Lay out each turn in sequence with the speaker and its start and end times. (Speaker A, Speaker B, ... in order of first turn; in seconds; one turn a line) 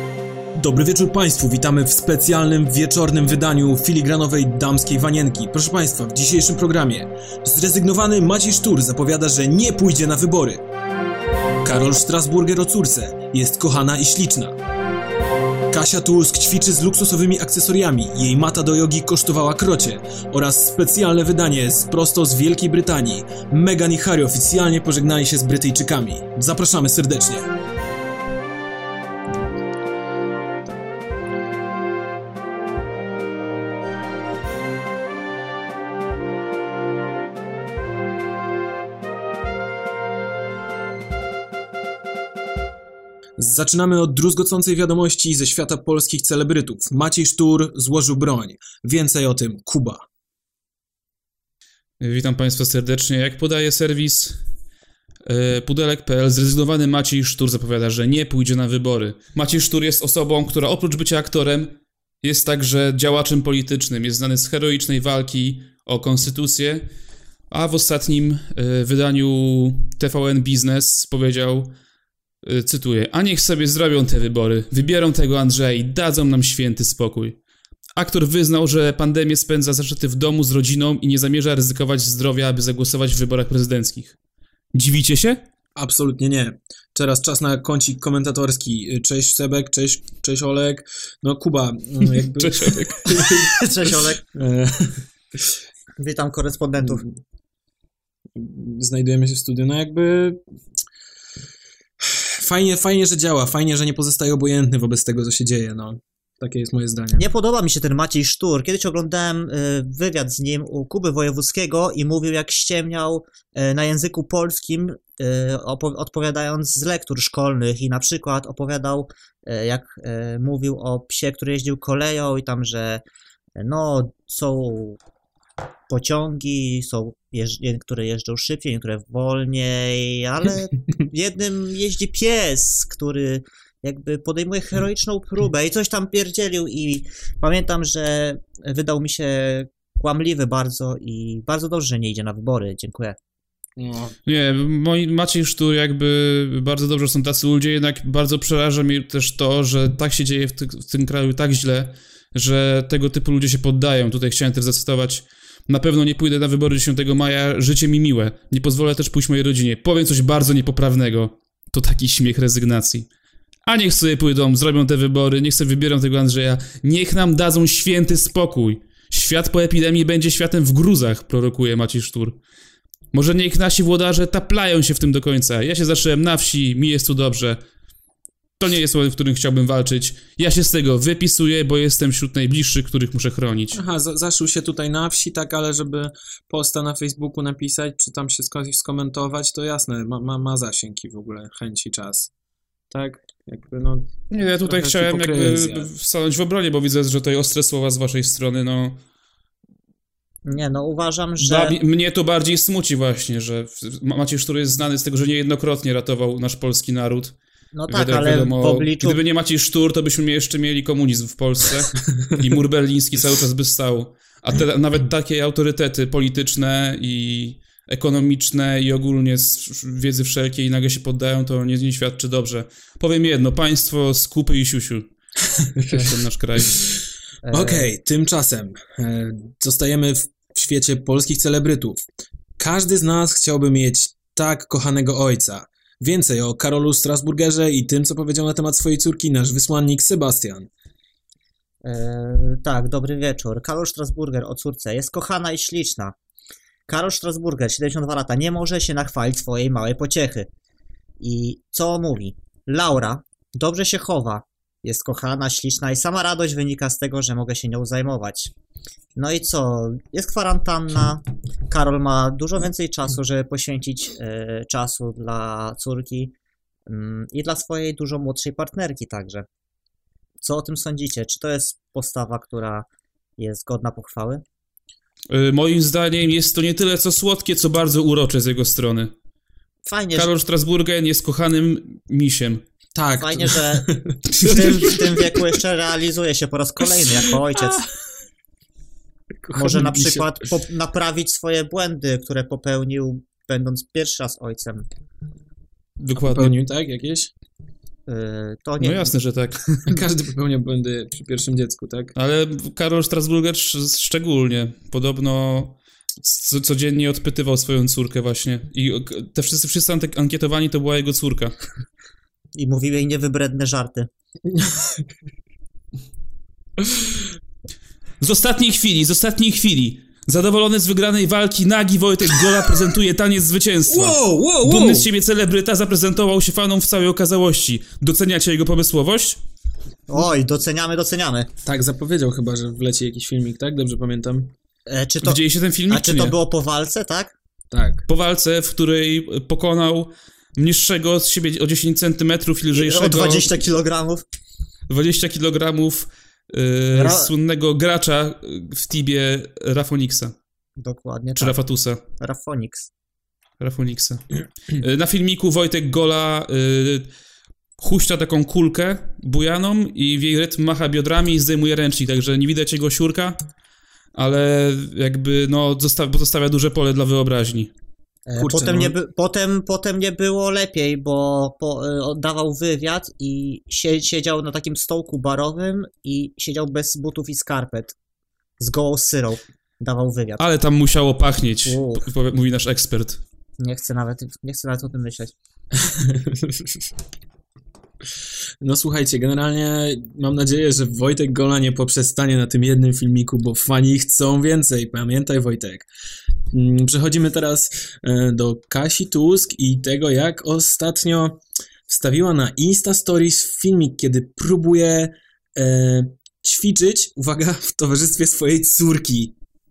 Speaker A: 0.6-10.6
Speaker A: 11.6-14.6
Speaker A: 15.7-27.5
Speaker A: 43.4-50.0
Speaker B: 52.0-54.4
Speaker B: 55.2-66.9
Speaker B: 67.5-71.7
Speaker B: 72.4-77.4
Speaker B: 78.0-84.2
Speaker B: 84.7-85.4
Speaker A: 85.8-95.5
Speaker B: 92.0-93.3
Speaker C: 93.5-94.2
Speaker C: 96.0-97.0
Speaker A: 96.8-97.1
Speaker A: 98.3-100.4
Speaker A: 102.0-107.2
Speaker C: 107.2-123.0
Speaker C: 123.6-125.0
Speaker C: 125.9-143.2
Speaker A: 143.8-144.2
Speaker B: 144.2-163.1
Speaker B: 163.7-172.4
Speaker B: 173.1-177.6
Speaker B: 178.6-183.8
Speaker A: 183.7-192.3
Speaker A: 192.9-194.1
Speaker B: 194.3-199.0
Speaker A: 194.6-195.9
Speaker C: 200.4-201.8
Speaker B: 201.4-207.3
Speaker C: 207.7-209.2
Speaker B: 207.9-225.1
Speaker A: 225.4-232.0
Speaker B: 225.9-226.8
Speaker C: 227.4-227.9
Speaker A: 232.6-240.7
Speaker C: 241.8-246.1
Speaker C: 246.9-250.5
Speaker C: 251.2-258.5
Speaker C: 259.1-266.3
Speaker C: 266.9-269.4
Speaker C: 270.4-272.8
Speaker C: 273.4-274.4
Speaker B: 275.3-279.1
Speaker C: 279.9-280.3
Speaker B: 280.1-282.6
Speaker A: 282.9-285.5
Speaker C: 283.2-287.8
Speaker A: 287.2-287.9
Speaker A: 289.4-290.4
Speaker C: 289.6-294.9
Speaker B: 296.0-296.5
Speaker A: 296.1-297.3
Speaker C: 298.1-299.1
Speaker B: 298.8-299.6
Speaker A: 299.9-302.1
Speaker B: 302.1-311.6
Speaker C: 312.5-314.1
Speaker A: 314.5-315.0
Speaker B: 318.2-329.4
Speaker A: 323.9-325.1
Speaker C: 330.1-331.5
Speaker A: 331.6-334.5
Speaker C: 334.9-337.3
Speaker B: 335.2-336.3
Speaker A: 337.7-338.0
Speaker B: 338.1-343.5
Speaker C: 342.7-344.2
Speaker B: 344.9-350.4
Speaker C: 346.9-347.3
Speaker C: 350.8-351.6
Speaker B: 351.4-352.0
Speaker C: 352.2-352.9
Speaker B: 353.6-357.1
Speaker B: 357.8-363.4
Speaker B: 364.1-367.7
Speaker C: 368.3-377.9
Speaker A: 368.4-368.9
Speaker C: 378.6-380.4
Speaker B: 380.4-383.2
Speaker C: 381.7-382.1
Speaker C: 383.6-385.3
Speaker A: 385.7-386.9
Speaker A: 388.6-395.9
Speaker A: 396.5-409.3